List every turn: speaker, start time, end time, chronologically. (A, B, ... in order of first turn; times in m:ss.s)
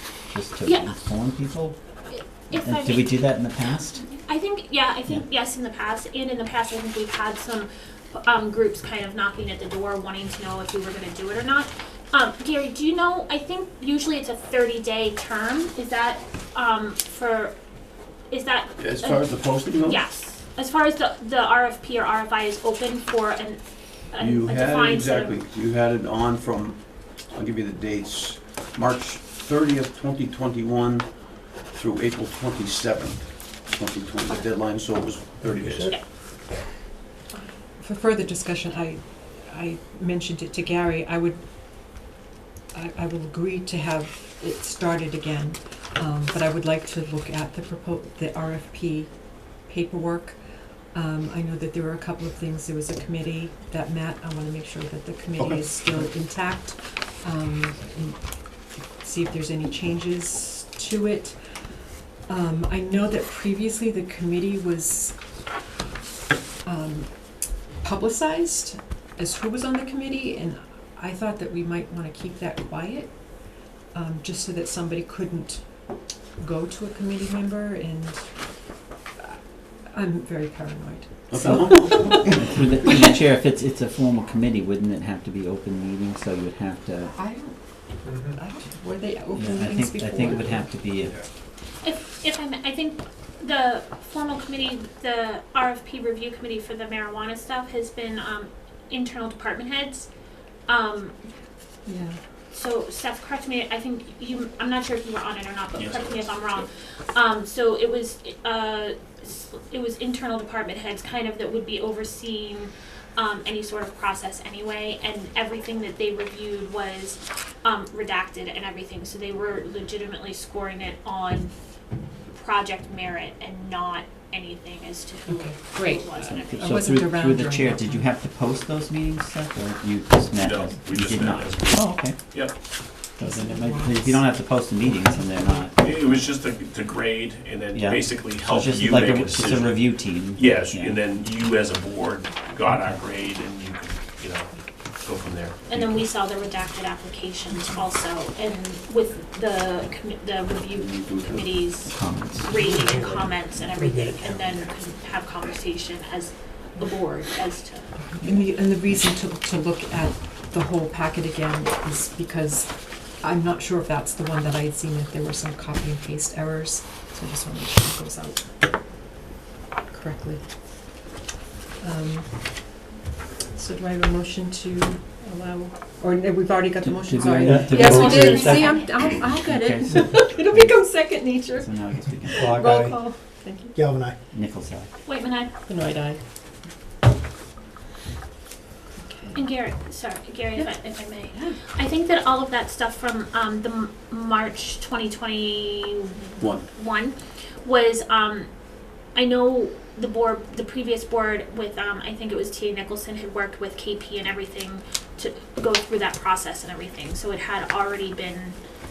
0:00.3-0:01.8 A
0:00.6-0:01.0 B
0:02.1-0:03.2 B
0:02.5-0:04.0 A
0:04.2-0:17.5 B
0:18.3-0:23.6 B
0:18.8-0:20.0 C
0:24.1-0:25.4 B
0:24.2-0:35.9 C
0:37.3-0:41.4 D
0:42.7-1:05.2 D
1:06.6-1:22.3 D
1:21.3-1:22.3 C
1:21.5-1:27.2 A
1:27.1-1:27.6 D
1:28.3-1:30.6 D
1:29.3-1:31.2 A
1:31.8-1:40.1 B
1:40.7-1:41.2 B
1:41.8-1:42.2 D
1:42.5-2:01.5 B
1:45.7-1:46.7 E
2:02.3-2:06.8 B
2:05.3-2:08.1 D
2:06.3-2:15.9 A
2:10.4-2:12.6 E
2:13.2-2:14.2 D
2:15.8-2:26.1 E
2:17.7-2:21.0 A
2:22.7-2:23.0 A
2:25.7-2:37.9 B
2:30.7-2:31.6 C
2:31.8-2:32.5 A
2:32.7-2:33.3 F
2:38.0-2:48.5 D
2:49.9-2:50.4 D
2:51.8-2:52.8 D
2:53.5-3:03.8 D
2:56.8-3:00.9 A
2:57.4-2:58.6 F
3:01.5-3:02.6 A
3:02.3-3:03.0 F
3:03.8-3:04.1 F
3:04.3-3:04.9 A
3:05.0-3:05.5 B
3:05.7-3:06.2 D
3:09.0-3:09.5 D
3:09.3-3:18.5 B
3:10.5-3:11.6 D
3:19.1-3:28.6 B